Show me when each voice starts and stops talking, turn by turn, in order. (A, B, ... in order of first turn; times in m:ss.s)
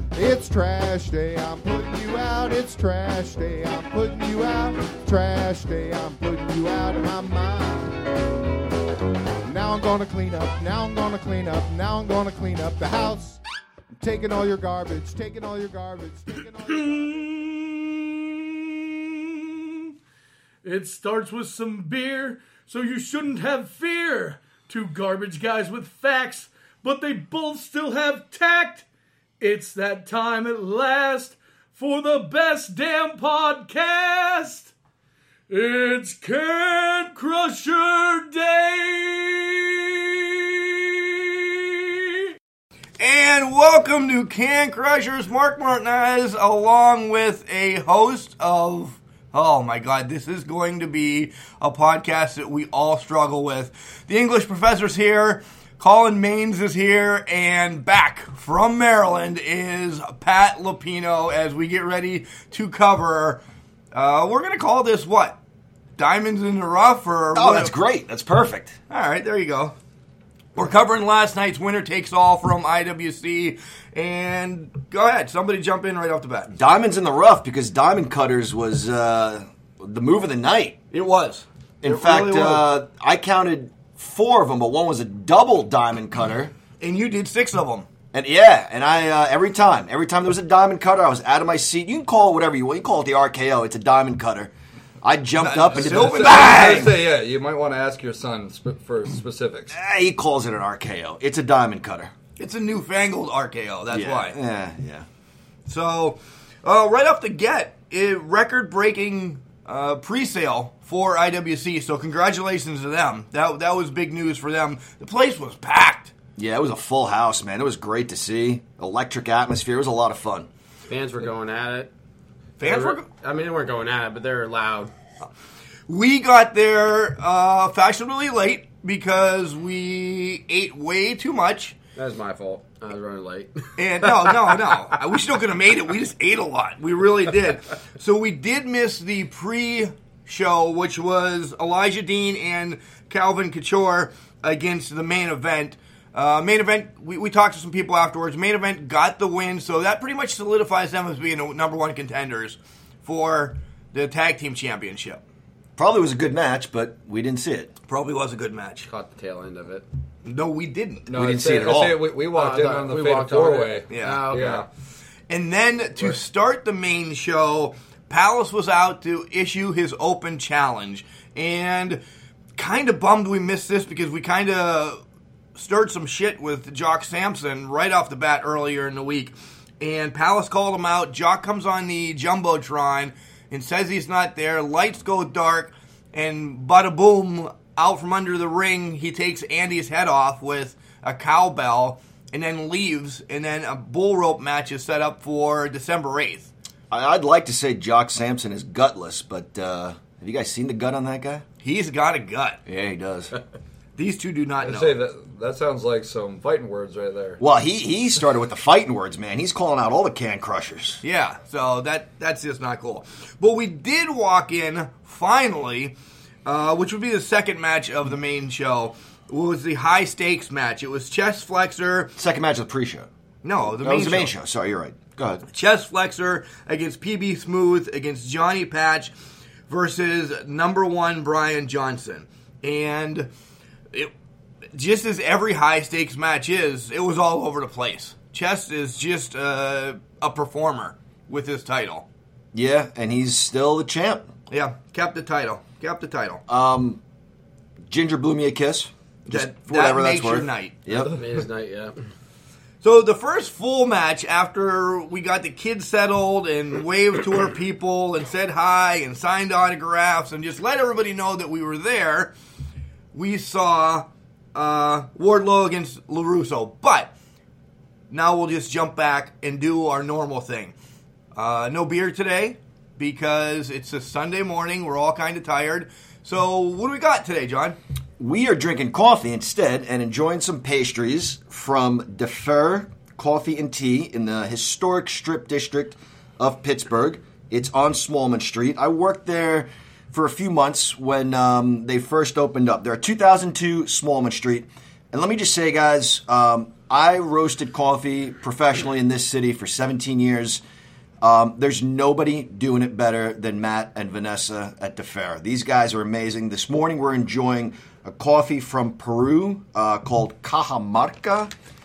0:00.1-0:08.1 A
0:09.4-0:13.4 A
0:14.0-0:17.3 A
0:16.7-0:19.8 B
0:20.6-0:28.8 B
0:29.4-0:34.7 B
0:35.5-0:42.2 B
0:43.0-1:03.4 C
1:03.9-1:05.4 C
1:06.0-1:07.7 C
1:07.3-1:08.8 D
1:08.9-1:09.8 C
1:10.6-1:16.5 C
1:16.5-1:20.8 D
1:20.9-1:22.7 C
1:21.8-1:26.5 D
1:26.8-1:27.9 C
1:28.1-1:37.0 D
1:35.4-1:36.9 C
1:35.8-1:39.8 E
1:39.7-1:42.1 D
1:42.4-1:44.4 C
1:43.9-1:45.1 D
1:45.7-1:56.1 C
1:56.4-2:00.5 D
2:00.9-2:01.9 F
2:02.6-2:03.1 C
2:02.6-2:04.9 F
2:05.9-2:11.8 C
2:12.0-2:14.7 F
2:13.8-2:35.2 C
2:35.8-2:37.7 D
2:37.9-2:38.9 C
2:38.9-2:39.8 F
2:40.2-2:41.1 C
2:41.1-2:44.7 E
2:41.1-2:42.1 D
2:42.3-2:44.7 F
2:43.9-2:44.5 C
2:45.3-2:52.0 C
2:52.6-2:55.0 C
2:55.6-3:16.5 C
3:16.9-3:21.4 D
3:21.6-3:22.6 C
3:22.7-3:23.3 D
3:24.0-3:25.0 C
3:24.6-3:27.4 E
3:27.4-3:31.0 D
3:31.0-3:35.9 C
3:36.4-3:42.1 C
3:42.2-3:43.1 D
3:43.4-3:44.3 C
3:43.7-3:45.5 D
3:45.5-3:49.1 C
3:49.7-3:53.3 C
3:54.7-4:02.1 C
4:02.5-4:04.3 D
4:04.5-4:06.4 C
4:06.5-4:07.0 D
4:07.9-4:11.2 D
4:09.3-4:11.1 C
4:11.0-4:12.0 F
4:12.8-4:22.3 C
4:23.1-4:27.1 C
4:28.1-4:30.7 C
4:31.4-4:37.8 C
4:38.2-5:00.6 D
5:01.2-5:11.5 D